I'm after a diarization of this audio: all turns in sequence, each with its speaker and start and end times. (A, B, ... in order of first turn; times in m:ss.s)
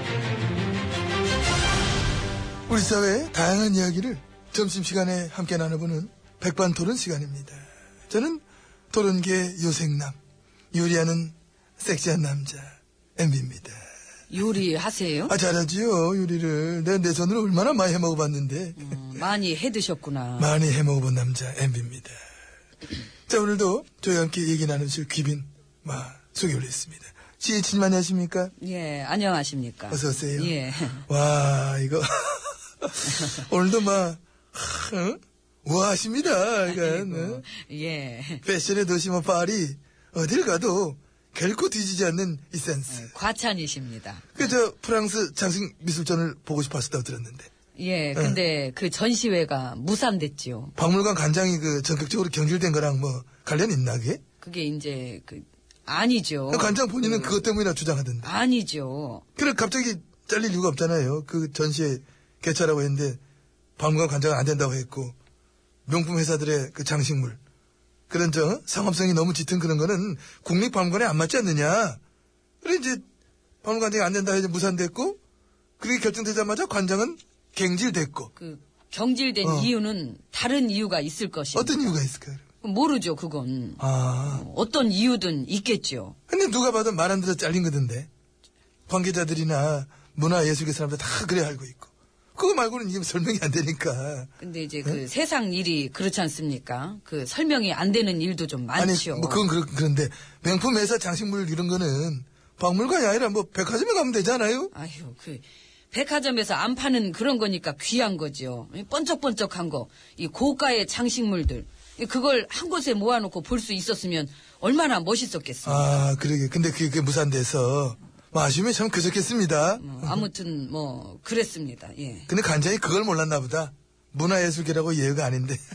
0:02.7-0:10.2 A
0:10.7-0:13.8 A
0:14.3-0:15.4 B
0:15.3-0:19.2 A
0:18.8-0:20.5 B
0:20.4-0:22.2 A
0:23.3-0:28.5 A
0:28.6-0:31.0 B
0:29.9-0:37.4 A
0:36.7-0:38.4 B
0:38.4-0:43.1 A
0:42.9-0:44.4 B
0:44.3-0:47.5 A
0:47.8-0:50.7 B
0:50.8-0:54.2 A
0:54.4-0:57.4 B
0:56.5-0:58.3 A
0:58.2-0:59.2 B
0:59.4-1:03.2 A
1:03.8-1:05.1 A
1:05.9-1:07.4 A
1:08.1-1:12.0 A
1:12.6-1:13.0 A
1:13.6-1:15.2 A
1:15.8-1:18.3 A
1:18.4-1:21.9 B
1:19.4-1:19.7 A
1:21.5-1:22.4 A
1:22.6-1:26.2 B
1:23.8-1:24.4 A
1:26.3-1:28.1 A
1:28.9-1:34.3 A
1:34.4-1:39.4 B
1:38.8-1:44.7 A
1:44.7-1:56.0 B
1:55.6-2:00.3 A
1:59.8-2:02.3 B
2:02.3-2:05.6 A